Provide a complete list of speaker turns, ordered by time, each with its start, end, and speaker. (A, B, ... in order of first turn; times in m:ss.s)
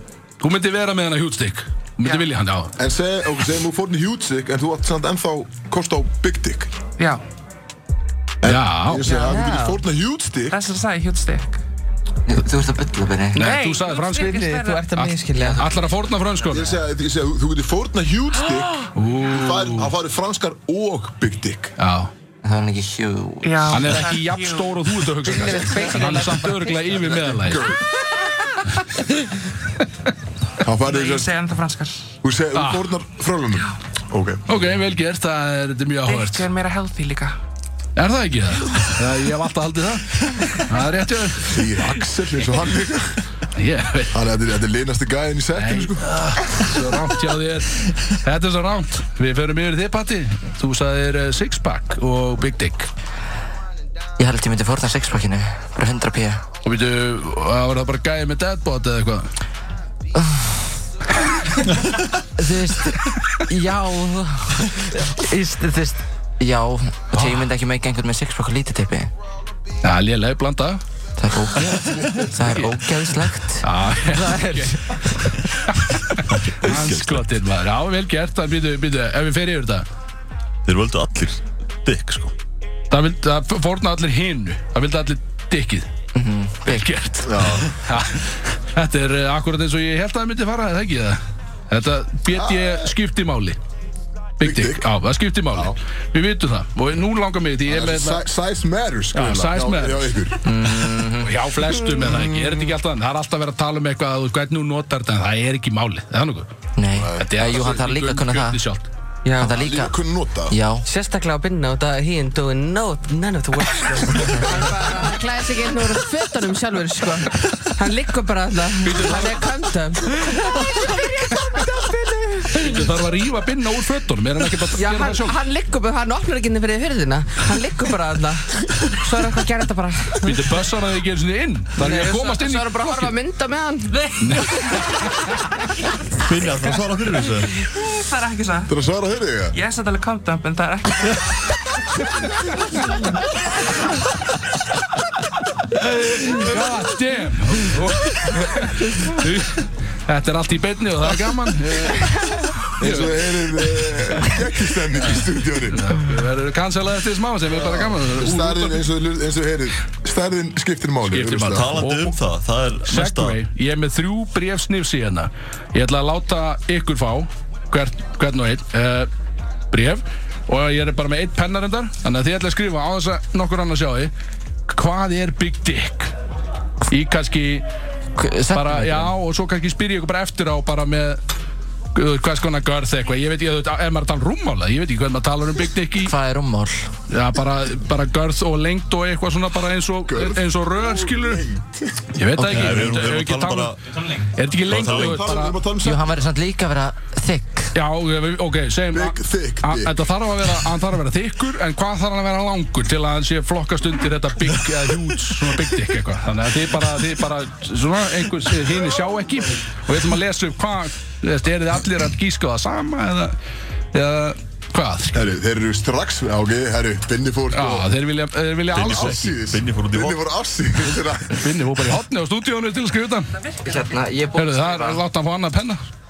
0:00.4-0:02.8 A
0:02.8-0:06.7 B
0:08.4-0:10.6 B
0:08.4-0:09.1 A
0:09.0-0:09.4 C
0:09.3-0:09.8 D
0:10.5-0:11.6 C
0:12.3-0:13.5 E
0:13.3-0:16.8 A
0:13.4-0:14.8 C
0:14.3-0:15.7 D
0:15.4-0:15.7 E
0:16.5-0:21.7 B
0:18.9-0:19.9 A
0:21.8-0:22.1 A
0:22.4-0:23.9 E
0:23.4-0:24.8 C
0:23.7-0:27.7 A
0:25.2-0:26.9 D
0:26.9-0:27.9 B
0:30.6-0:31.3 B
0:30.8-0:32.0 C
0:32.2-0:34.4 B
0:32.5-0:32.9 A
0:34.5-0:36.5 A
0:36.0-0:37.4 C
0:38.0-0:41.5 A
0:41.4-0:43.2 B
0:43.5-0:44.2 A
0:44.1-0:46.7 B
0:45.5-0:52.9 A
0:54.2-0:56.4 E
0:56.6-0:59.2 A
1:00.1-1:00.6 E
1:02.4-1:09.1 E
1:07.1-1:07.5 A
1:09.8-1:10.8 A
1:11.2-1:15.4 E
1:11.9-1:12.6 B
1:12.5-1:12.8 A
1:13.6-1:14.8 A
1:15.7-1:19.8 A
1:16.3-1:17.2 F
1:20.6-1:22.3 F
1:22.9-1:25.9 A
1:26.1-1:26.9 E
1:26.6-1:31.2 A
1:27.2-1:27.7 B
1:31.7-1:33.6 A
1:32.3-1:32.9 B
1:34.4-1:38.2 A
1:34.4-1:34.9 B
1:37.7-1:40.4 B
1:39.1-1:40.1 A
1:40.4-1:41.3 E
1:41.2-1:46.5 A
1:42.0-1:42.7 B
1:46.8-1:48.6 E
1:46.9-1:47.3 B
1:47.1-1:48.9 A
1:49.2-1:49.5 D
1:49.4-1:50.0 E
1:49.5-1:50.6 B
1:50.5-1:50.8 E
1:50.8-2:02.9 D
1:58.8-1:59.4 A
2:02.5-2:05.3 A
2:04.7-2:10.4 D
2:10.2-2:13.1 A
2:11.8-2:14.1 D
2:14.2-2:15.5 A
2:16.2-2:17.5 F
2:17.5-2:18.7 C
2:18.7-2:19.6 B
2:19.5-2:21.4 C
2:25.8-2:32.2 A
2:31.2-2:35.9 B
2:32.8-2:33.2 A
2:35.0-2:38.8 A
2:37.5-2:41.8 B
2:41.1-2:42.2 A
2:41.5-2:43.4 F
2:42.8-2:49.1 A
2:49.7-2:54.1 A
2:54.7-2:56.1 A
2:56.9-2:57.6 A
2:58.2-2:59.1 E
2:58.5-3:01.2 A
3:01.9-3:06.1 A
3:06.0-3:06.9 E
3:07.1-3:11.4 A
3:10.0-3:12.1 B
3:12.1-3:15.6 A
3:12.4-3:12.9 E
3:12.5-3:13.8 F
3:14.6-3:15.4 F
3:14.8-3:16.2 B
3:15.8-3:17.7 E
3:17.7-3:33.3 A
3:18.9-3:20.0 B
3:33.9-3:35.2 A
3:35.1-3:37.9 B
3:37.5-3:39.2 A
3:38.7-3:40.2 F
3:38.7-3:41.4 B
3:41.3-3:43.3 A
3:43.4-3:43.9 C
3:43.6-3:45.0 E
3:44.4-3:45.8 A